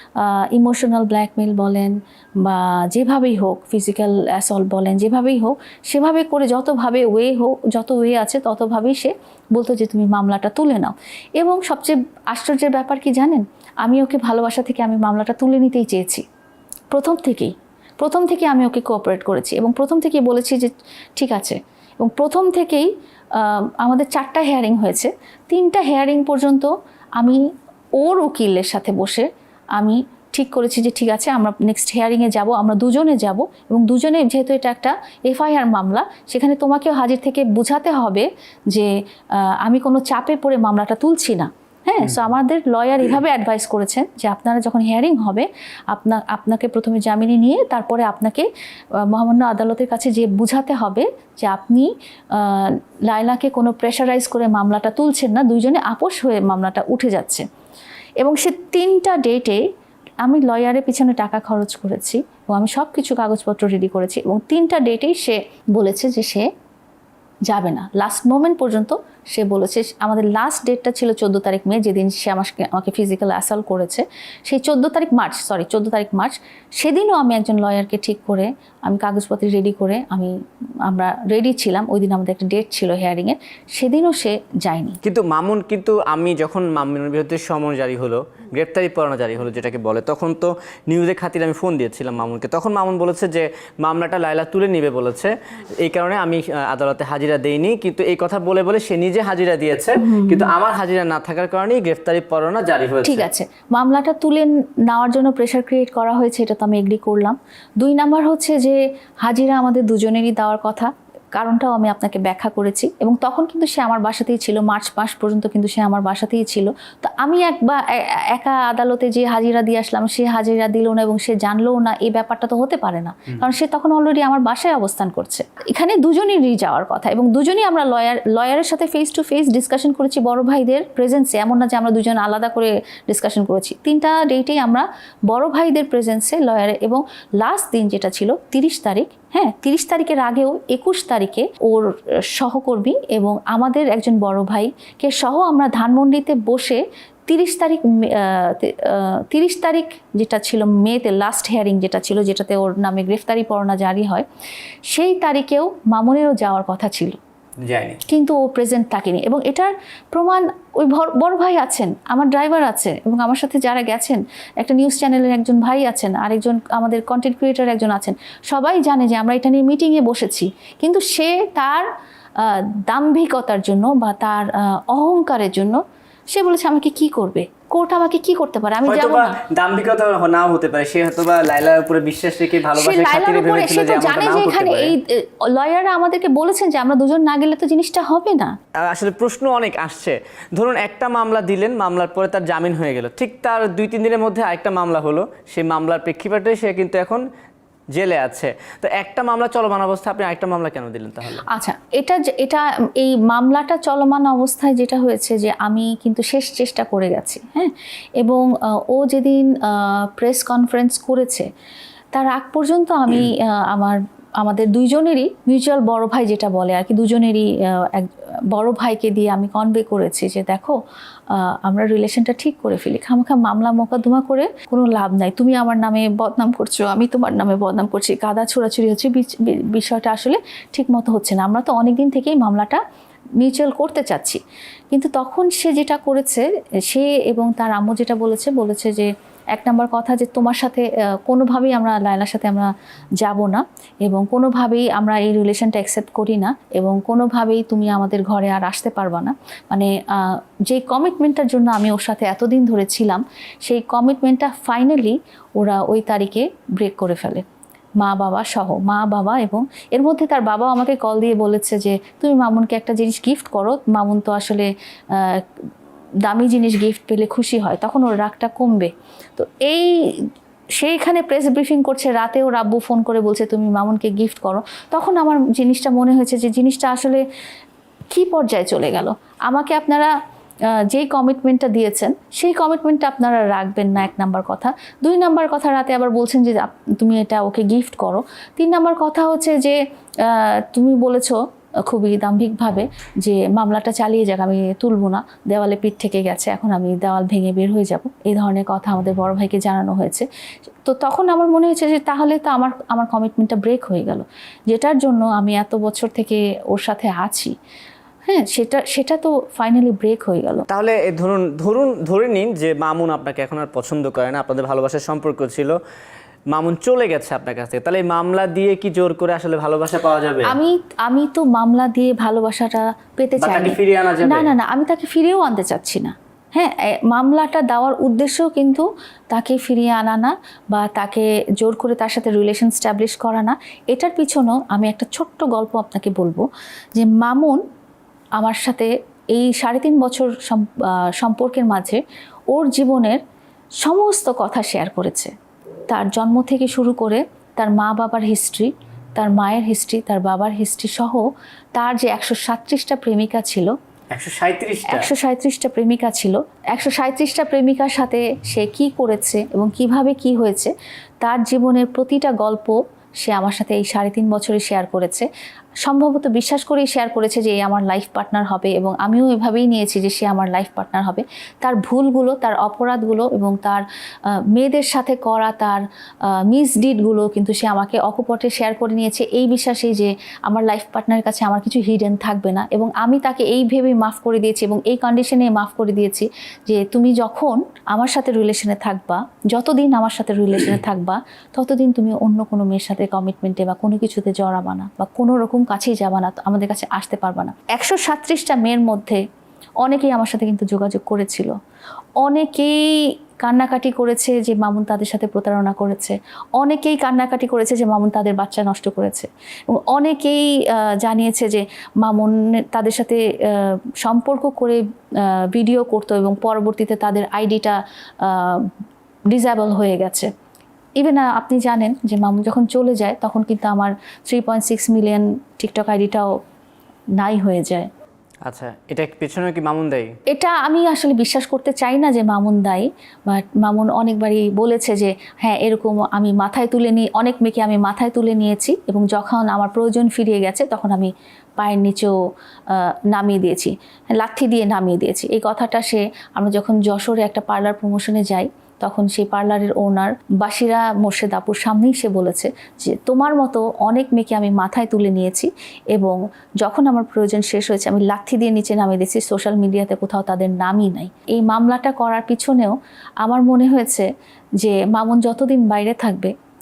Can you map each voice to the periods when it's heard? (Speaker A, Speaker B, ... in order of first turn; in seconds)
Speaker A: 0.2-16.2, 16.9-27.4, 28.0-48.5, 49.0-57.4, 58.2-59.6, 60.2-66.5, 67.5-80.3, 80.9-85.0, 100.0-100.5, 103.0-154.2, 154.9-157.2, 158.1-171.9, 172.4-175.8, 176.3-179.4, 182.8-188.5, 201.5-211.5, 212.1-220.8, 221.3-232.8, 233.4-234.4, 234.9-257.4, 258.0-265.5, 266.2-277.2, 278.1-280.1, 280.7-300.3, 300.9-307.5, 308.3-310.6, 320.5-337.6, 338.4-342.0, 342.5-343.2, 343.8-345.3, 345.9-351.2, 351.8-353.7, 354.9-365.3, 365.8-373.8, 374.4-399.2, 399.8-401.5, 402.2-418.7, 419.3-420.3, 421.0-426.3, 427.2-427.9, 430.3-442.1, 442.7-464.1, 464.6-466.3
Speaker B: 85.0-103.3, 157.7-158.0, 178.9-184.9, 188.8-197.2, 197.9-201.4, 310.7-315.8, 316.5-320.6, 323.4-324.5, 354.1-355.1, 428.5-430.1